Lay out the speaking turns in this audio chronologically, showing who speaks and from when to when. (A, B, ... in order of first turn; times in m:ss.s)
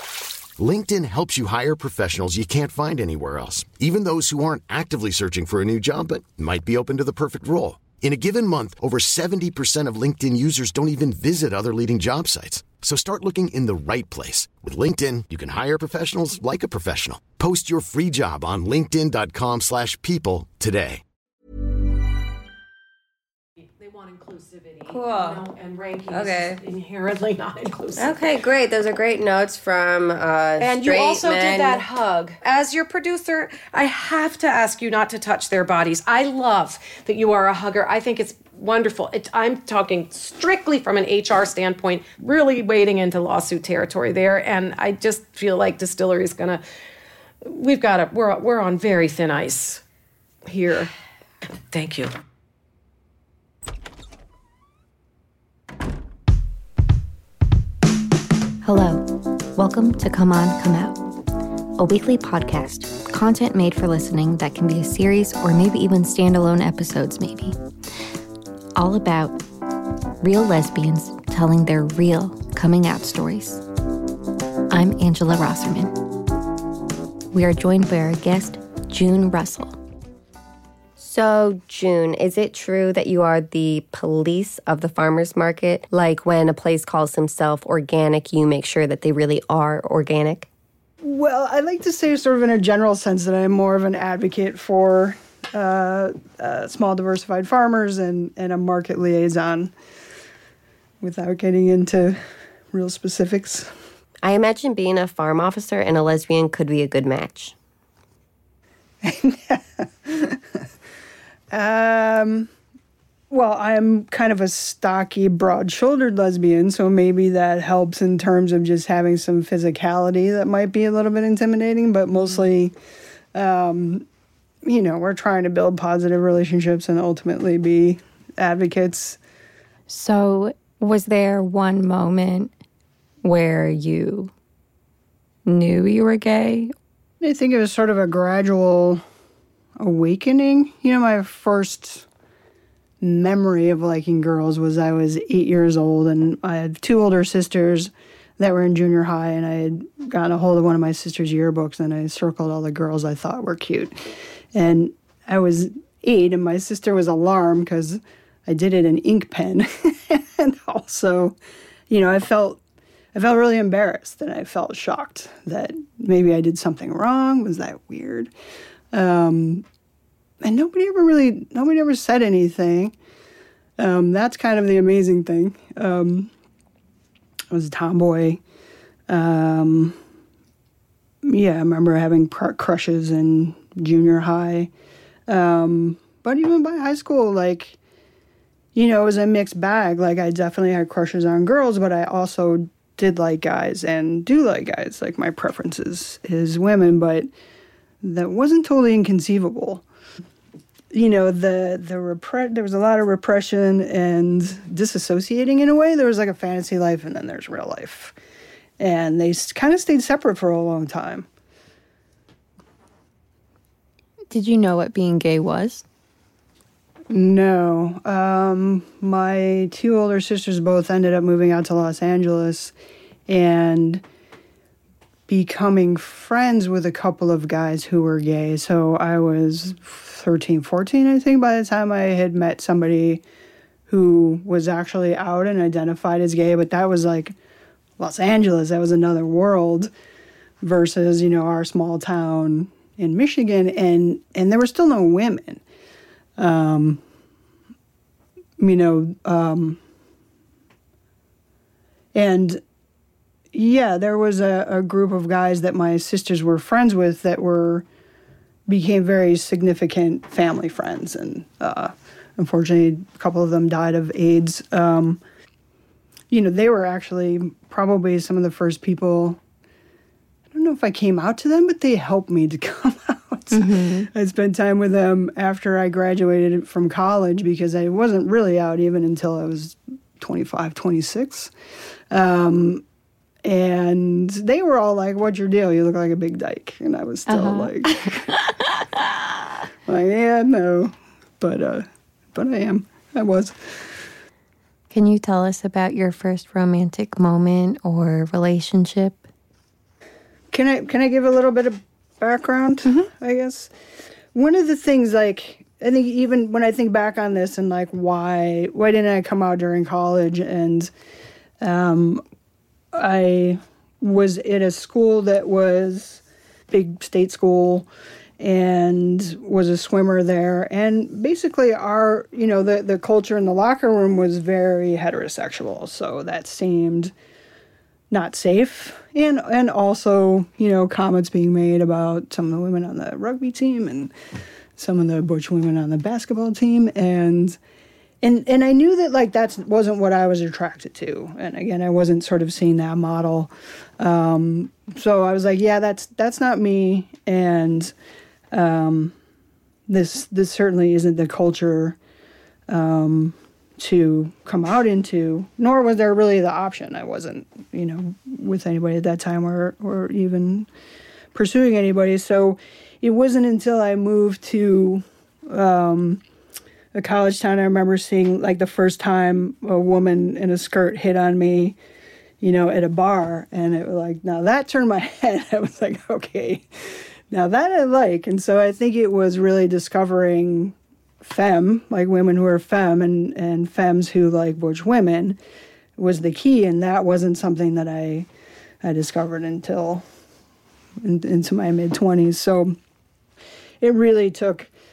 0:00.6-0:21.0 A
0:23.8-0:28.2 B
0:24.9-0:25.4 C
0:26.1-0:26.6 C
0:28.0-0:31.8 C
0:30.6-0:46.6 B
0:47.4-0:49.8 B
0:50.5-0:50.9 B
0:51.7-0:52.1 B
0:58.6-1:01.0 D
1:01.8-1:07.6 D
1:08.8-1:09.4 D
1:10.2-1:13.6 D
1:14.7-1:15.9 D
1:17.3-1:19.8 D
1:21.0-1:30.5 C
1:31.0-1:39.7 E
1:41.0-1:42.2 E
1:42.7-1:43.7 E
1:44.2-1:47.5 C
1:49.0-1:50.4 E
1:51.5-1:52.5 E
1:53.3-2:02.7 E
2:03.3-2:04.0 E
2:04.6-2:09.2 E
2:09.9-2:12.5 D
2:13.2-2:14.3 D
2:15.4-2:16.7 D
2:17.2-2:19.0 E
2:19.8-2:22.1 E
2:23.0-2:41.4 E
2:41.9-2:42.6 E
2:43.1-2:48.3 E
2:48.9-2:49.6 E
2:50.4-2:53.0 E
2:53.8-2:56.3 E
2:57.5-2:58.4 E
2:59.1-3:00.0 E
3:01.2-3:04.7 E
3:05.3-3:07.8 E
3:08.7-3:17.3 E
3:18.0-3:19.8 E
3:20.9-3:28.2 E
3:28.8-3:31.3 E
3:34.3-3:35.8 D
3:37.1-3:42.7 E
3:43.3-3:44.0 E
3:45.3-3:53.2 E
3:53.9-3:57.3 E
3:58.0-3:59.9 E
4:00.6-4:05.6 E
4:06.4-4:07.0 E
4:08.6-4:09.8 E
4:12.1-4:12.6 E
4:13.5-4:17.8 E
4:18.7-4:25.2 E
4:26.3-4:29.4 E
4:30.5-4:41.5 E
4:33.5-4:34.1 D
4:42.1-4:42.8 E
4:43.4-4:48.2 E
4:47.3-4:49.1 D
4:49.9-4:53.5 E
4:54.9-4:59.2 D
5:00.5-5:03.7 E
5:04.3-5:10.9 E
5:11.6-5:12.2 E
5:12.9-5:17.9 E
5:18.4-5:27.1 E
5:28.1-5:34.1 E
5:34.8-5:37.6 E
5:38.2-5:47.9 E
5:48.5-5:49.1 E
5:49.9-5:52.0 E
5:52.7-6:00.7 E
6:01.3-6:06.2 E
6:06.9-6:11.8 E
6:12.4-6:16.7 E
6:17.3-6:25.4 E
6:26.0-6:28.3 E
6:28.8-6:30.0 E
6:31.0-6:32.7 E
6:33.8-6:34.7 E